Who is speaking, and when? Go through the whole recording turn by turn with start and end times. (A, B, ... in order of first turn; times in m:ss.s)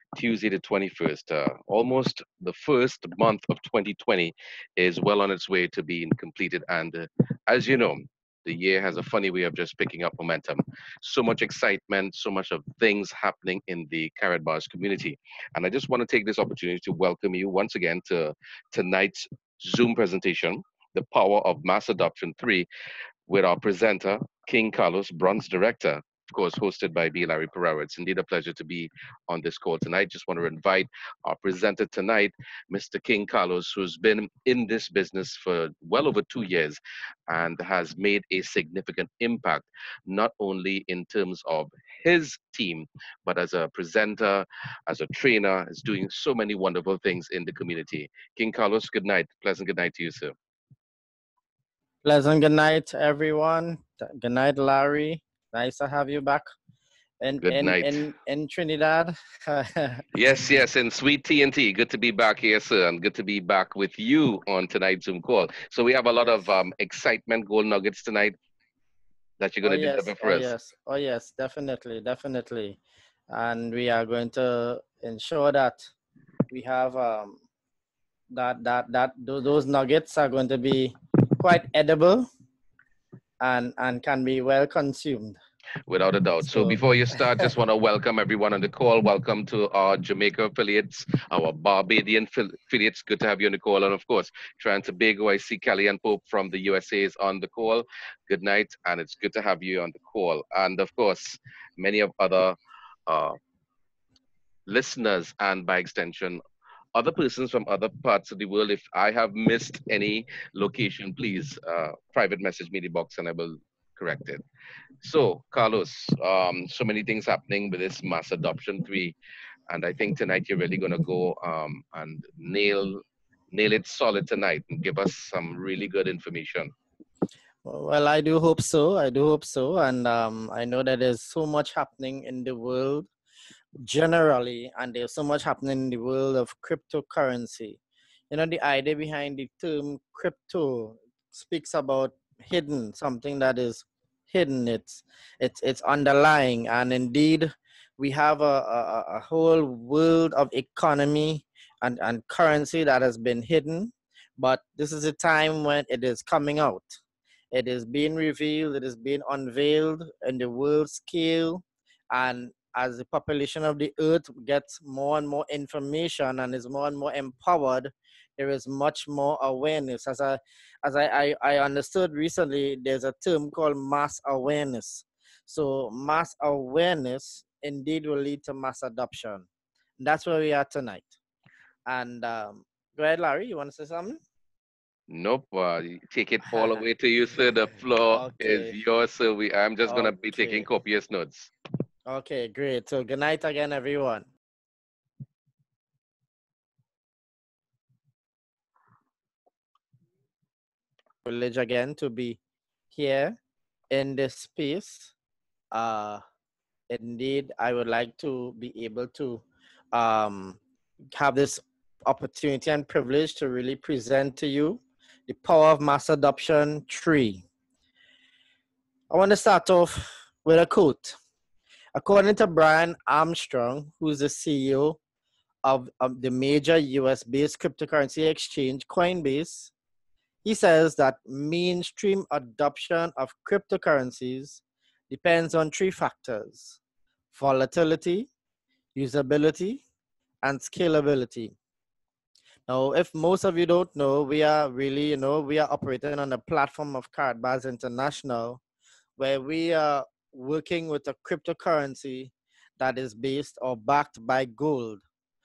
0:00.2-0:22.7 A
0:23.3-0:50.3 A
0:52.0-0:56.5 B
0:57.2-1:00.0 B
0:57.4-0:58.0 A
1:00.1-1:08.3 A
1:09.4-1:10.5 A
1:09.6-1:12.8 B
1:13.3-1:15.9 B
1:16.5-1:17.4 B
1:18.3-1:22.3 B
1:23.4-1:25.4 B
1:25.9-1:43.4 A
1:26.4-1:26.8 B
1:44.7-1:46.4 A
1:46.9-1:54.4 A
1:55.0-1:59.1 A
1:59.7-2:06.7 A
2:07.6-2:13.1 B
2:13.8-2:17.8 B
2:18.3-2:37.0 B
2:37.5-2:59.5 B
3:00.0-3:01.2 B
3:01.9-3:04.2 B
3:05.1-3:11.5 A
3:08.0-3:08.8 B
3:09.8-3:10.7 B
3:12.1-3:14.2 B
3:21.2-3:22.4 B
3:22.9-3:23.4 B
3:23.9-3:25.1 B
3:25.7-3:26.2 B
3:26.9-3:30.6 B
3:31.1-3:37.4 B
3:39.1-3:41.2 B
3:42.0-3:45.0 B
3:45.6-3:49.7 B
3:50.4-3:56.8 B
3:57.3-3:58.3 B
3:58.9-3:59.8 B
4:00.4-4:01.5 B
4:02.7-4:08.6 B
4:09.2-4:15.0 B